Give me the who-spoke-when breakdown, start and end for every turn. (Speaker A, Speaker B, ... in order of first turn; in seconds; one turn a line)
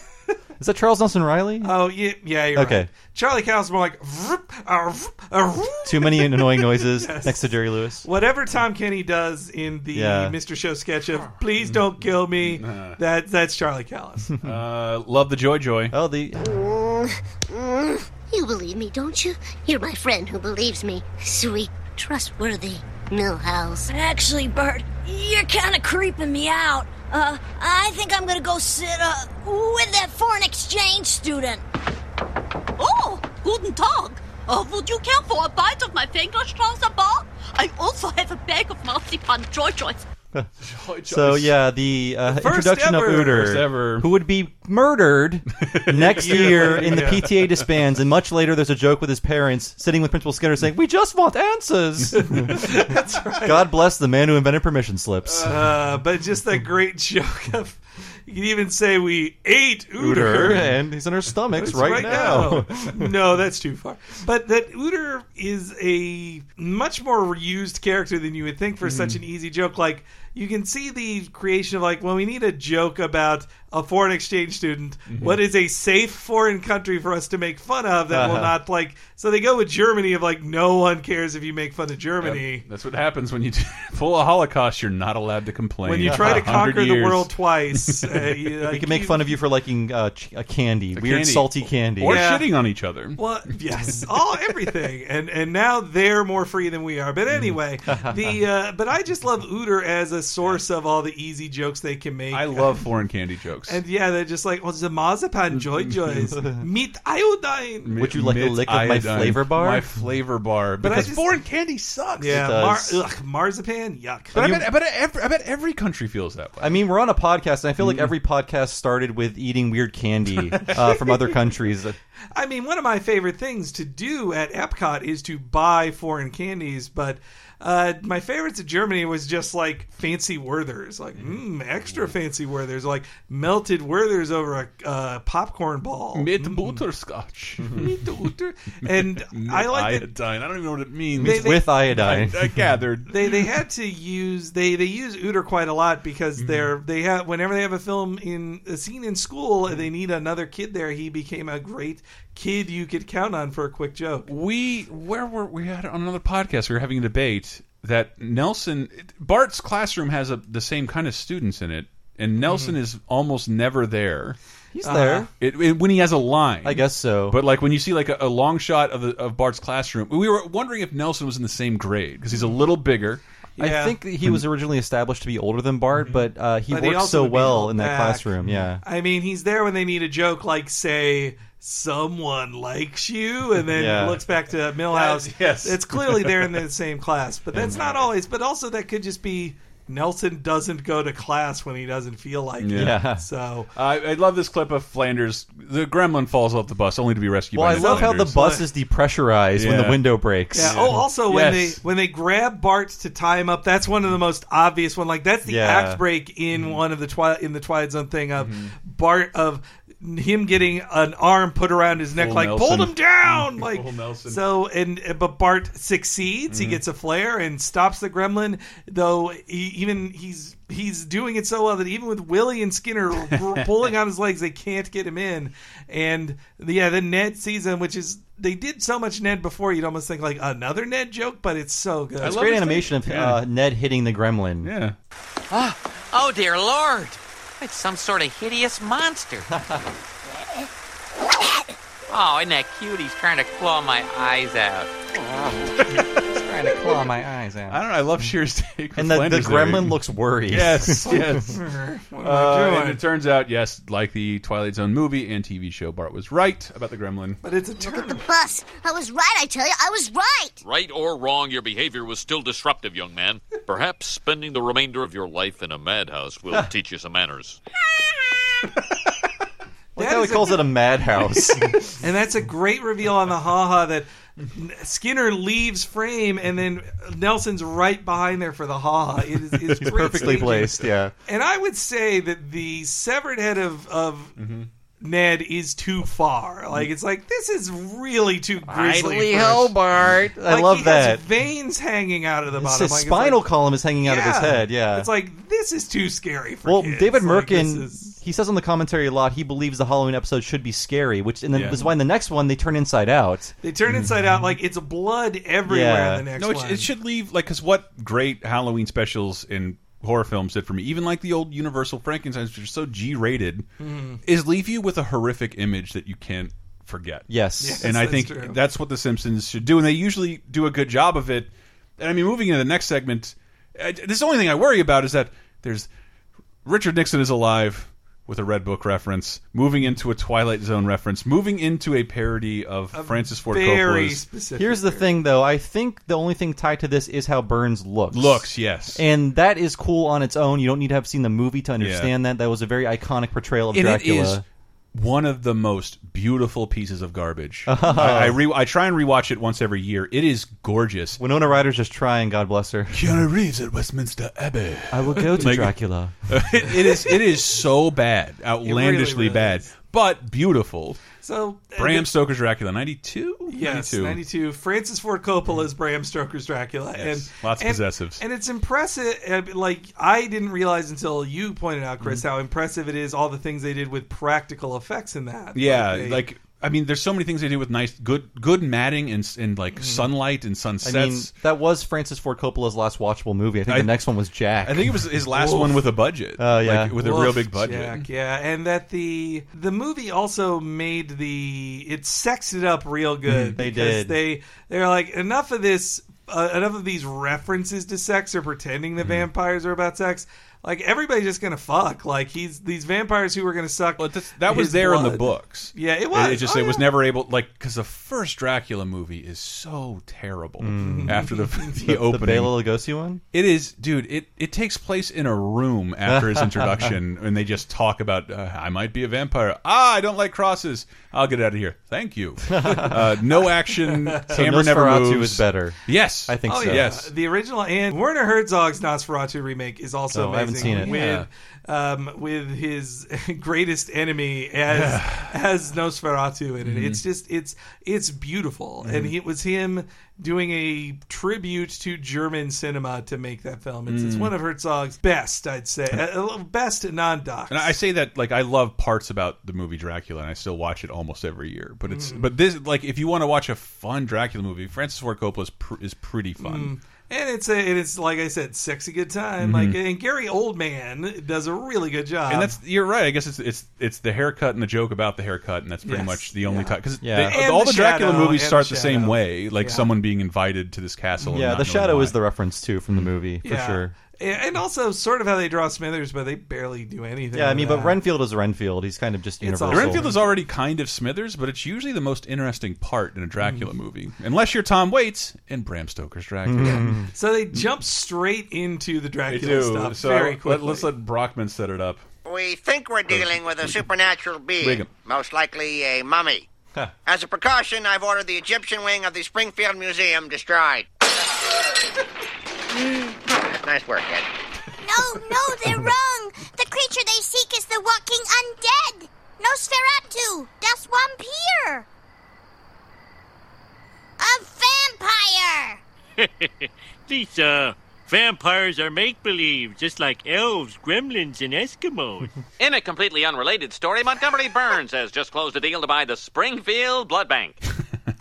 Speaker A: 0.6-1.7
Speaker B: 1.6-7.5
Speaker A: 2.5-2.9
Speaker A: 5.8-8.0
Speaker B: 8.0-14.3
Speaker A: 9.9-10.3
Speaker C: 11.6-13.0
Speaker C: 14.4-15.9
Speaker A: 15.9-16.4
Speaker D: 16.4-23.9
Speaker E: 23.9-31.6
Speaker F: 32.8-40.0
Speaker C: 40.6-41.6
Speaker A: 41.1-52.7
Speaker B: 42.3-43.5
Speaker C: 43.0-44.1
Speaker C: 45.6-47.7
Speaker B: 46.0-47.2
Speaker B: 52.3-53.7
Speaker A: 53.4-55.5
Speaker C: 55.3-55.5
Speaker B: 55.4-60.6
Speaker A: 60.0-63.0
Speaker C: 60.3-60.7
Speaker B: 61.6-82.6
Speaker C: 61.7-62.5
Speaker C: 68.8-69.2
Speaker C: 75.1-75.4
Speaker A: 78.1-78.5
Speaker C: 82.2-88.3
Speaker B: 85.8-89.3
Speaker A: 86.0-86.5
Speaker A: 88.7-92.2
Speaker C: 90.9-93.2
Speaker B: 92.0-92.5
Speaker B: 93.2-102.8
Speaker A: 97.9-98.2
Speaker C: 102.3-103.8
Speaker B: 103.7-107.9
Speaker C: 105.5-106.2
Speaker A: 106.3-106.6
Speaker C: 107.8-112.5
Speaker A: 108.0-109.8
Speaker B: 110.8-111.3
Speaker B: 112.2-114.5
Speaker A: 112.2-113.0
Speaker C: 114.3-116.8
Speaker A: 114.3-114.7
Speaker A: 116.6-122.0
Speaker C: 117.8-118.1
Speaker C: 120.4-120.8
Speaker B: 122.3-136.8
Speaker C: 136.1-138.2
Speaker B: 137.7-140.1
Speaker C: 138.9-143.4
Speaker A: 141.2-142.5
Speaker B: 141.2-141.7
Speaker B: 143.1-154.3
Speaker C: 146.4-146.7
Speaker C: 154.3-164.4
Speaker B: 162.4-162.8
Speaker A: 164.7-165.3
Speaker B: 164.8-165.3
Speaker C: 165.4-173.2
Speaker A: 166.6-167.4
Speaker B: 173.6-174.0
Speaker A: 173.6-178.8
Speaker C: 175.9-176.2
Speaker B: 176.7-193.7
Speaker A: 183.7-184.2
Speaker C: 184.9-186.6
Speaker C: 187.5-188.1
Speaker C: 192.6-193.0
Speaker A: 192.7-193.2
Speaker C: 193.7-198.4
Speaker A: 197.5-201.0
Speaker B: 197.7-198.6
Speaker C: 199.5-200.0
Speaker B: 200.5-232.5
Speaker C: 200.6-201.8
Speaker A: 205.4-206.0
Speaker C: 206.5-206.8
Speaker C: 208.4-208.7
Speaker C: 212.1-214.4
Speaker C: 216.5-216.8
Speaker C: 223.3-223.6
Speaker A: 232.2-234.7
Speaker C: 232.2-233.4
Speaker C: 234.6-234.9
Speaker G: 235.5-239.5
Speaker A: 239.5-239.8
Speaker G: 242.1-244.9
Speaker C: 245.8-246.2
Speaker A: 245.9-247.8
Speaker C: 246.7-247.0
Speaker C: 247.7-249.9
Speaker A: 249.0-251.4
Speaker C: 250.5-251.6
Speaker B: 251.1-253.0
Speaker C: 252.2-257.4
Speaker B: 257.4-258.2
Speaker D: 257.8-260.6
Speaker H: 260.6-267.6
Speaker A: 269.9-271.7
Speaker B: 270.0-270.7
Speaker B: 271.9-284.3
Speaker A: 279.8-281.1
Speaker C: 279.9-280.6
Speaker C: 284.4-284.7
Speaker B: 285.0-289.8
Speaker G: 288.7-290.3
Speaker A: 290.2-291.2
Speaker B: 290.5-293.4
Speaker A: 292.5-295.1
Speaker B: 294.0-298.1
Speaker A: 296.6-303.5
Speaker C: 301.5-301.8
Speaker B: 303.6-306.9
Speaker C: 303.9-304.4
Speaker A: 305.6-306.2
Speaker C: 306.4-313.6
Speaker B: 313.8-314.2
Speaker C: 314.2-317.3
Speaker A: 317.3-317.9
Speaker B: 317.6-318.6
Speaker C: 317.8-325.9
Speaker C: 326.6-334.2
Speaker B: 332.9-335.1
Speaker A: 334.6-344.4
Speaker C: 338.1-339.0
Speaker C: 341.8-342.1
Speaker C: 343.7-344.4
Speaker C: 344.9-351.2
Speaker A: 347.7-348.4
Speaker A: 351.2-353.1
Speaker C: 352.9-355.8
Speaker A: 354.9-356.1
Speaker B: 355.1-355.4
Speaker C: 356.3-361.0
Speaker B: 356.9-357.2
Speaker B: 358.6-359.7
Speaker B: 361.2-362.1
Speaker C: 361.8-364.2
Speaker B: 363.5-376.2
Speaker C: 367.0-368.2
Speaker C: 375.5-381.3
Speaker B: 379.8-380.1
Speaker A: 380.8-385.0
Speaker C: 383.7-383.9
Speaker C: 384.6-388.0
Speaker B: 385.3-385.8
Speaker A: 386.4-386.9
Speaker B: 387.0-406.9
Speaker C: 393.3-393.6
Speaker A: 393.5-394.2
Speaker C: 399.0-399.3
Speaker C: 404.0-412.5
Speaker A: 410.6-411.3
Speaker B: 410.8-411.7
Speaker A: 411.8-413.2
Speaker C: 413.3-427.1
Speaker A: 416.1-416.9
Speaker A: 422.5-423.1
Speaker B: 423.8-424.2
Speaker A: 424.3-426.9
Speaker B: 426.5-447.7
Speaker A: 430.1-430.9
Speaker C: 430.6-431.3
Speaker C: 434.7-435.3
Speaker C: 436.6-437.0
Speaker C: 438.8-439.1
Speaker C: 443.9-444.3
Speaker C: 447.5-456.7
Speaker B: 451.9-452.2
Speaker B: 456.4-462.5
Speaker C: 459.4-459.8
Speaker C: 462.3-472.1
Speaker B: 465.8-466.8
Speaker A: 467.0-467.4
Speaker B: 467.3-469.9
Speaker A: 471.2-473.9
Speaker B: 473.4-478.0
Speaker A: 477.3-480.1
Speaker B: 479.4-480.3
Speaker C: 479.7-487.0
Speaker A: 486.4-487.1
Speaker B: 486.6-490.9
Speaker C: 489.3-492.0
Speaker I: 492.3-493.4
Speaker C: 493.1-493.9
Speaker I: 493.9-494.3
Speaker C: 494.6-494.9
Speaker I: 495.3-496.4
Speaker I: 497.2-500.8
Speaker J: 502.7-503.1
Speaker I: 503.7-504.1
Speaker J: 504.8-511.8
Speaker J: 514.2-515.6
Speaker D: 514.2-515.8
Speaker K: 516.2-522.3
Speaker G: 522.6-527.5